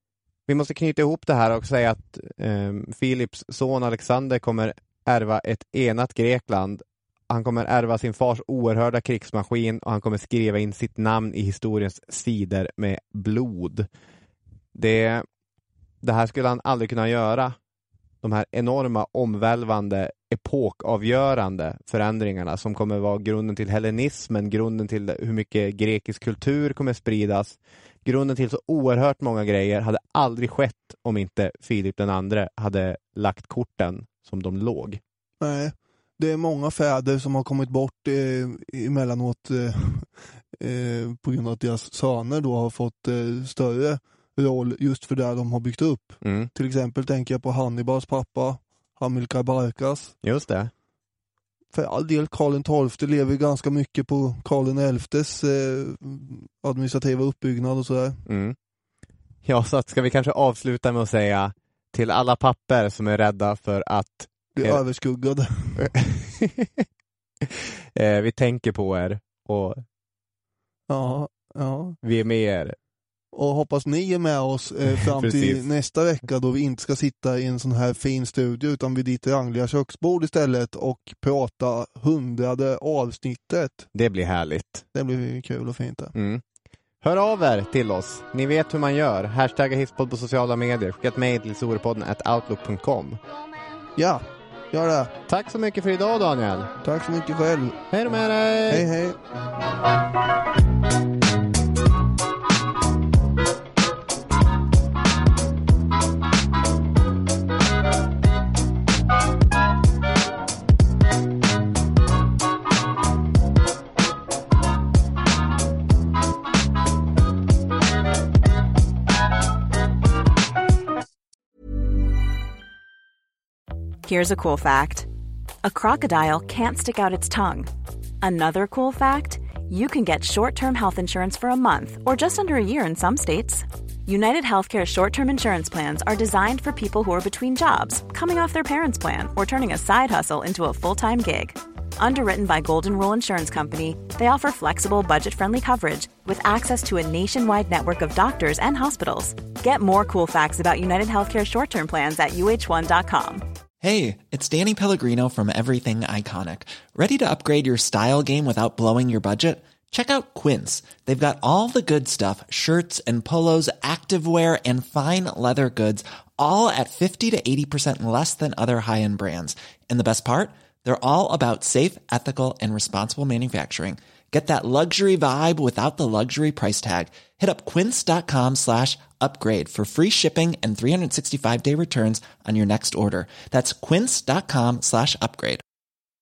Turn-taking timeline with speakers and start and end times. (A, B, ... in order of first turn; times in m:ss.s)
0:00.5-0:13.9 A
0:14.7-0:15.2 A
0:16.0-0:17.6 A
0:18.2-0:35.0 A
0:35.4-0:50.1 B
0:46.2-0:46.5 A
0:50.2-0:50.7 A
0:51.7-0:58.2 B
0:58.2-0:58.6 A
0:59.4-1:04.8 A
1:04.5-1:05.9 B
1:05.8-1:06.8 A
1:07.4-1:09.8 A
1:10.9-1:12.0 B
1:12.0-1:12.8 A
1:13.3-1:23.8 B
1:15.0-1:15.6 A
1:23.9-1:24.8 A
1:24.9-1:26.1 B
1:26.1-1:26.4 A
1:27.0-1:33.2 A
1:34.0-1:35.1 B
1:35.3-1:36.7 A
1:36.8-1:37.8 B
1:37.9-1:38.9 A
1:38.7-1:39.2 B
2:04.0-2:05.1 C
2:05.6-2:07.7 C
2:08.2-2:33.4 C
2:33.8-3:05.6 D